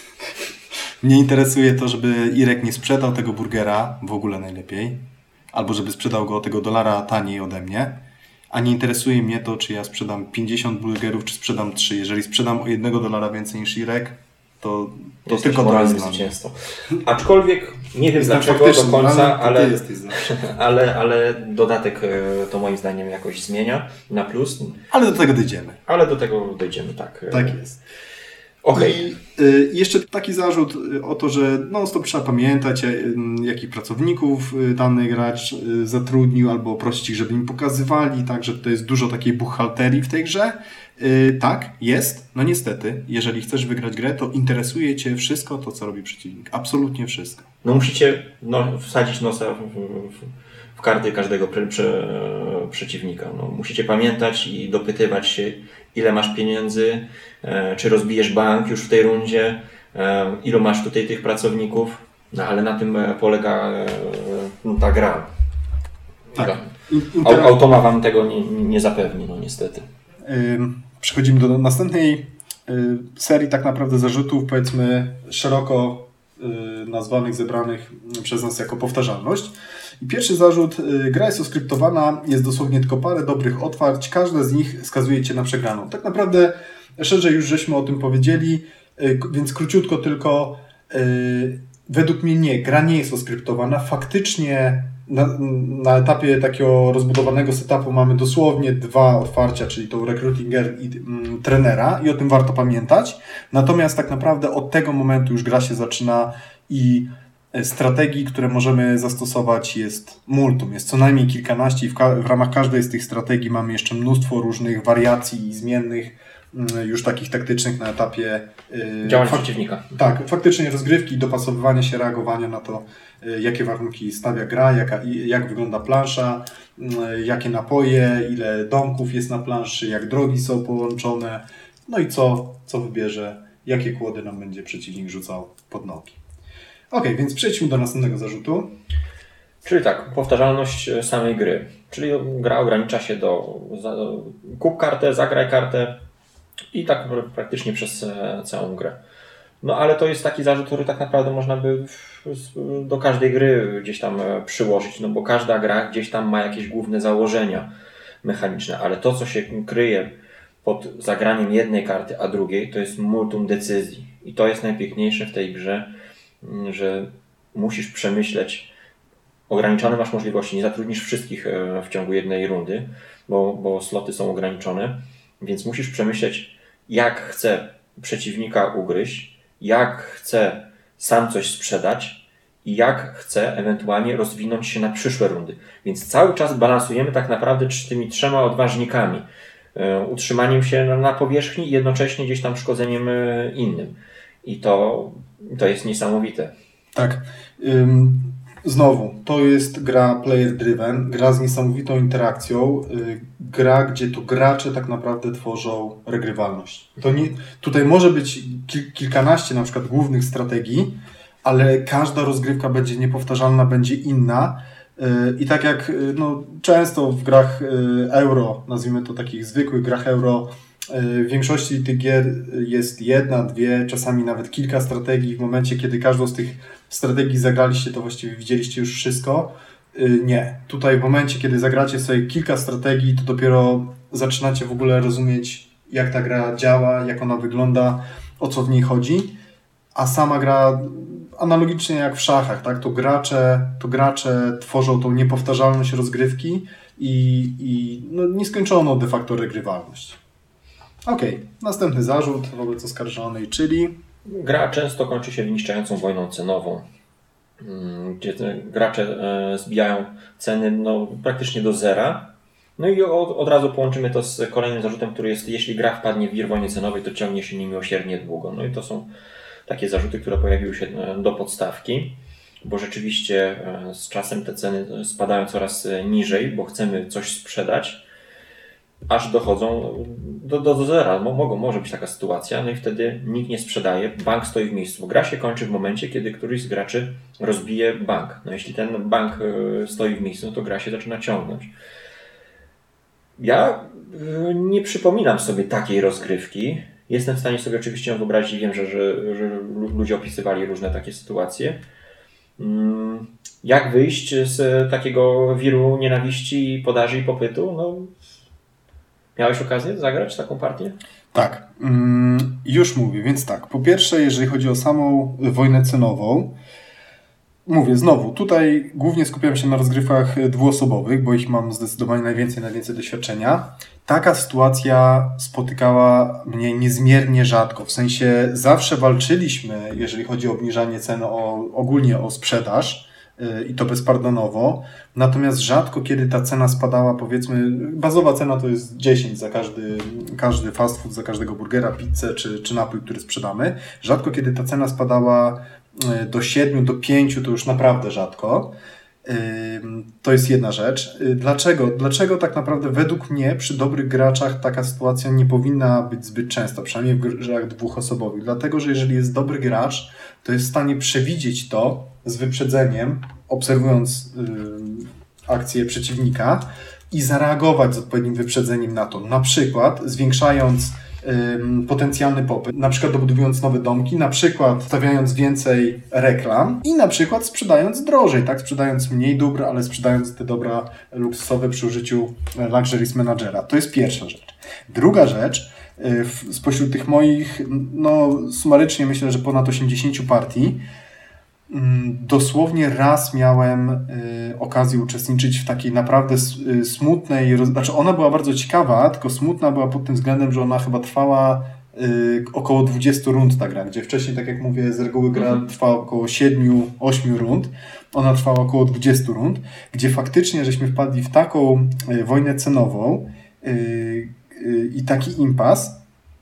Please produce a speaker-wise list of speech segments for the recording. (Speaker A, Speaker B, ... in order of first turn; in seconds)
Speaker A: 1.0-8.0, 8.5-16.3, 18.2-20.3, 24.9-25.8, 27.3-27.8, 28.7-47.5, 66.3-67.6, 70.2-136.2, 136.9-138.7, 196.9-239.4, 239.9-250.2, 251.1-254.0, 311.3-316.6, 317.7-390.8, 391.7-416.0
Speaker B: 15.3-24.8, 25.9-27.6, 28.6-29.0, 47.6-65.3, 66.3-66.7, 67.2-69.9, 119.0-120.0, 139.6-146.0, 146.7-149.0, 149.6-157.7, 158.2-168.7, 169.5-196.5, 254.3-256.9, 257.6-269.1, 269.7-278.0, 279.1-291.7, 293.4-301.8, 302.6-308.1, 309.4-311.0, 405.3-405.7